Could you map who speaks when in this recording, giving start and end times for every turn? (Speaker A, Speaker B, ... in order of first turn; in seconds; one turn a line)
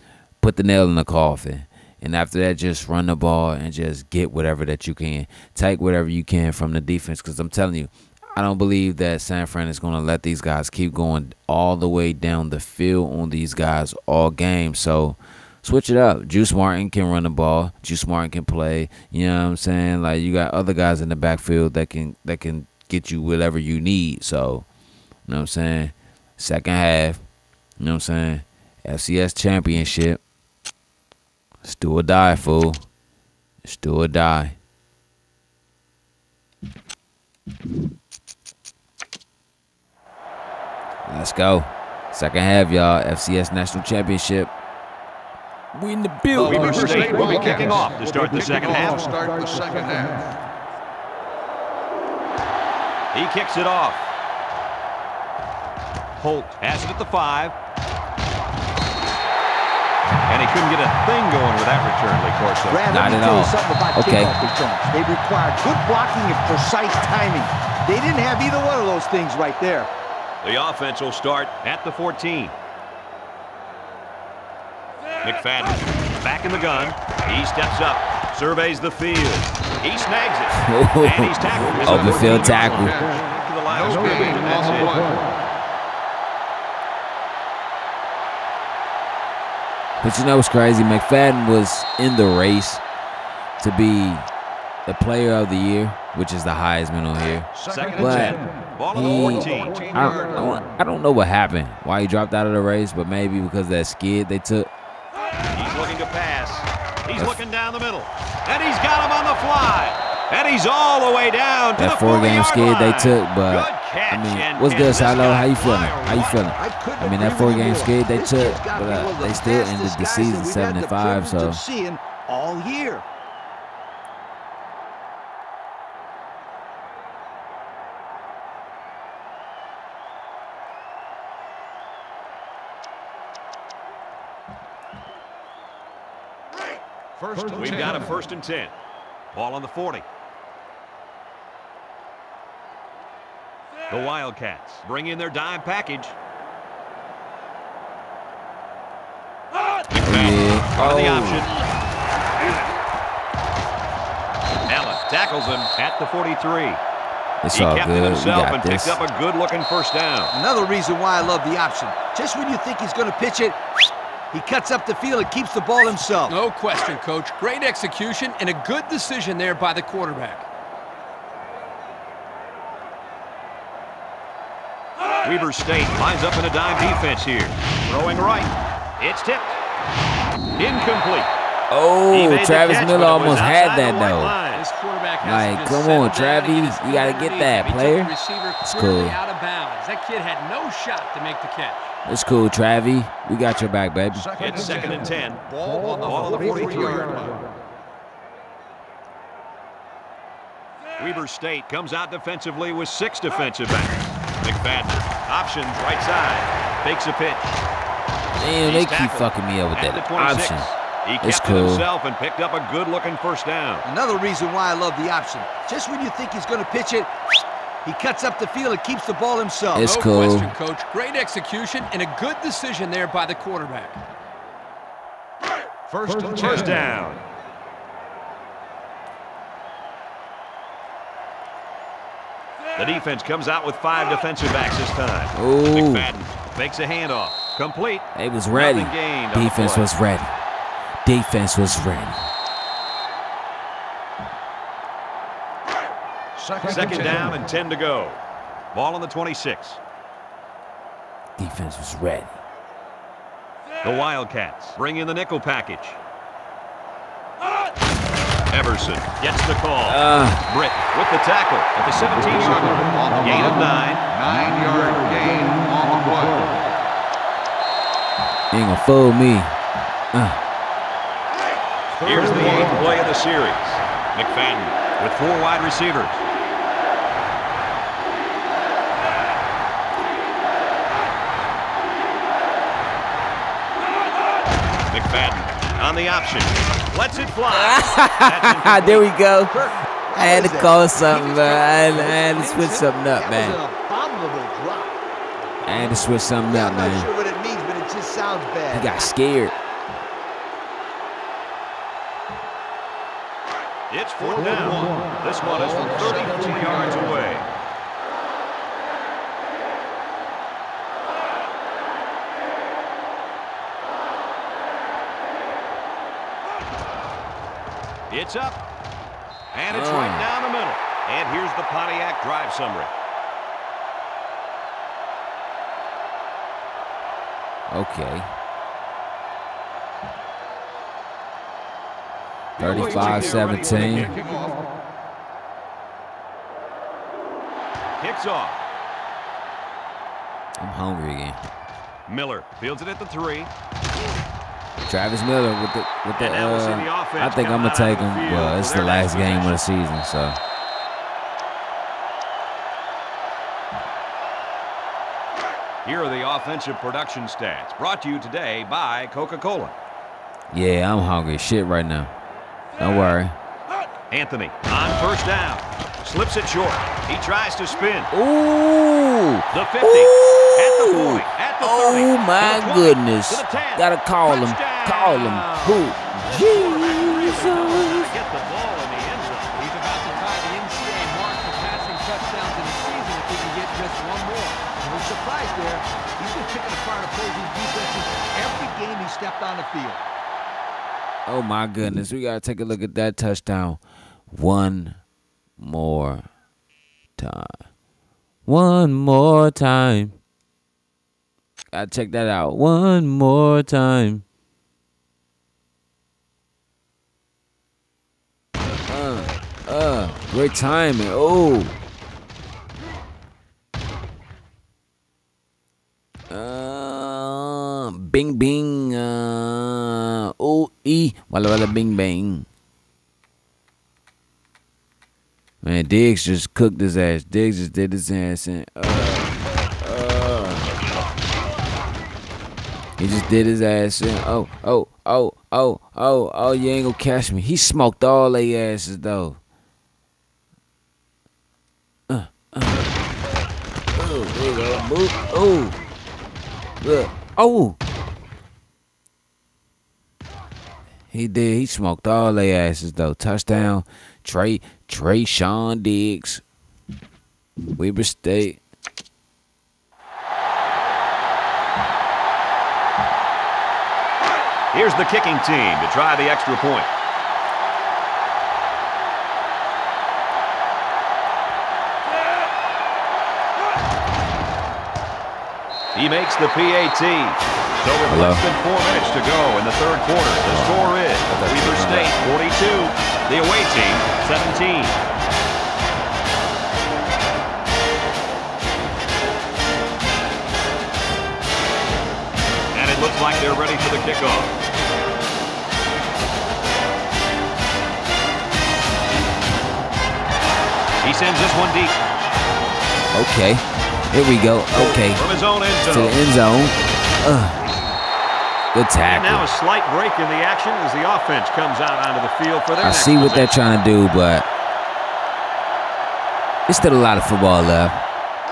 Speaker A: 0.4-24.6
Speaker A: 25.3-27.2
Speaker A: 27.8-30.2
Speaker A: 31.6-32.8
Speaker A: 33.6-34.5
Speaker A: 41.1-44.5
Speaker A: 45.7-47.7
Speaker B: 46.3-49.1
Speaker C: 46.4-50.4
Speaker B: 53.1-54.1
Speaker B: 56.2-57.5
Speaker B: 60.3-62.8
Speaker D: 62.7-69.9
Speaker A: 62.9-64.3
Speaker B: 70.4-72.5
Speaker B: 75.2-85.1
Speaker A: 80.5-83.0
Speaker C: 81.8-85.3
Speaker A: 90.0-92.8
Speaker A: 93.6-94.3
Speaker A: 94.8-98.4
Speaker C: 97.5-100.6
Speaker B: 97.7-99.9
Speaker A: 98.9-104.7
Speaker B: 105.5-116.5
Speaker A: 111.8-121.6
Speaker D: 116.6-123.0
Speaker C: 137.2-138.1
Speaker B: 137.5-138.7
Speaker B: 139.3-140.0
Speaker B: 143.9-146.2
Speaker B: 149.9-151.6
Speaker A: 150.0-151.5
Speaker B: 154.7-156.8
Speaker A: 157.4-159.0
Speaker B: 157.5-160.3
Speaker D: 160.3-166.3
Speaker E: 166.2-170.5
Speaker B: 175.2-179.6
Speaker B: 180.6-181.3
Speaker A: 181.7-184.4
Speaker B: 182.1-184.6
Speaker E: 184.5-191.9
Speaker A: 185.2-189.2
Speaker A: 192.1-194.2
Speaker C: 194.1-197.4
Speaker B: 194.4-195.4
Speaker B: 196.0-197.2
Speaker B: 201.0-207.6
Speaker A: 208.4-210.7
Speaker B: 208.6-213.9
Speaker A: 211.2-211.8
Speaker D: 213.8-217.2
Speaker D: 217.8-219.9
Speaker A: 219.7-220.5
Speaker E: 219.8-224.0
Speaker C: 225.9-226.9
Speaker B: 226.4-227.2
Speaker B: 232.8-239.9
Speaker A: 235.3-236.1
Speaker A: 238.1-240.3
Speaker A: 241.0-242.3
Speaker C: 246.3-247.4
Speaker B: 246.6-248.2
Speaker B: 248.7-249.8
Speaker A: 251.4-252.4
Speaker B: 253.8-256.0
Speaker B: 258.5-264.0
Speaker A: 259.9-260.4
Speaker C: 262.1-266.5
Speaker A: 268.5-269.6
Speaker A: 270.1-270.4
Speaker C: 272.0-273.0
Speaker B: 272.0-276.2
Speaker B: 284.9-289.1
Speaker A: 287.5-289.5
Speaker D: 289.5-295.0
Speaker A: 290.1-293.6
Speaker D: 295.6-298.9
Speaker A: 295.6-297.1
Speaker A: 298.7-299.5
Speaker B: 303.9-307.4
Speaker C: 304.4-307.1
Speaker D: 305.7-306.9
Speaker B: 318.1-318.6
Speaker B: 319.5-322.9
Speaker A: 319.7-320.3
Speaker A: 327.7-328.3
Speaker C: 332.6-334.6
Speaker A: 332.6-334.1
Speaker B: 332.6-334.1
Speaker B: 338.0-338.6
Speaker A: 340.6-341.4
Speaker B: 342.1-343.5
Speaker A: 344.9-350.4
Speaker B: 346.1-349.6
Speaker B: 355.8-359.8
Speaker A: 360.5-362.1
Speaker A: 362.8-363.4
Speaker B: 364.1-368.1
Speaker A: 368.1-378.1
Speaker B: 369.5-379.6
Speaker E: 379.5-384.6
Speaker D: 384.8-390.1
Speaker A: 391.3-395.0
Speaker A: 395.6-396.3
Speaker A: 397.2-397.5
Speaker A: 398.4-400.2
Speaker A: 401.7-404.2
Speaker A: 408.9-411.7
Speaker A: 416.3-422.5
Speaker A: 425.6-430.7
Speaker A: 433.0-439.4
Speaker A: 442.1-442.9
Speaker A: 443.9-445.8
Speaker A: 446.8-447.8
Speaker A: 451.1-456.4
Speaker A: 457.8-458.6
Speaker B: 464.7-466.9
Speaker B: 475.9-485.0
Speaker A: 478.1-478.4
Speaker A: 480.5-482.1
Speaker B: 492.7-494.5
Speaker B: 501.0-501.9
Speaker A: 503.1-505.2
Speaker B: 504.7-506.2
Speaker A: 505.9-507.7
Speaker A: 508.7-509.5
Speaker B: 509.1-513.5
Speaker A: 512.8-514.5
Speaker A: 516.7-518.0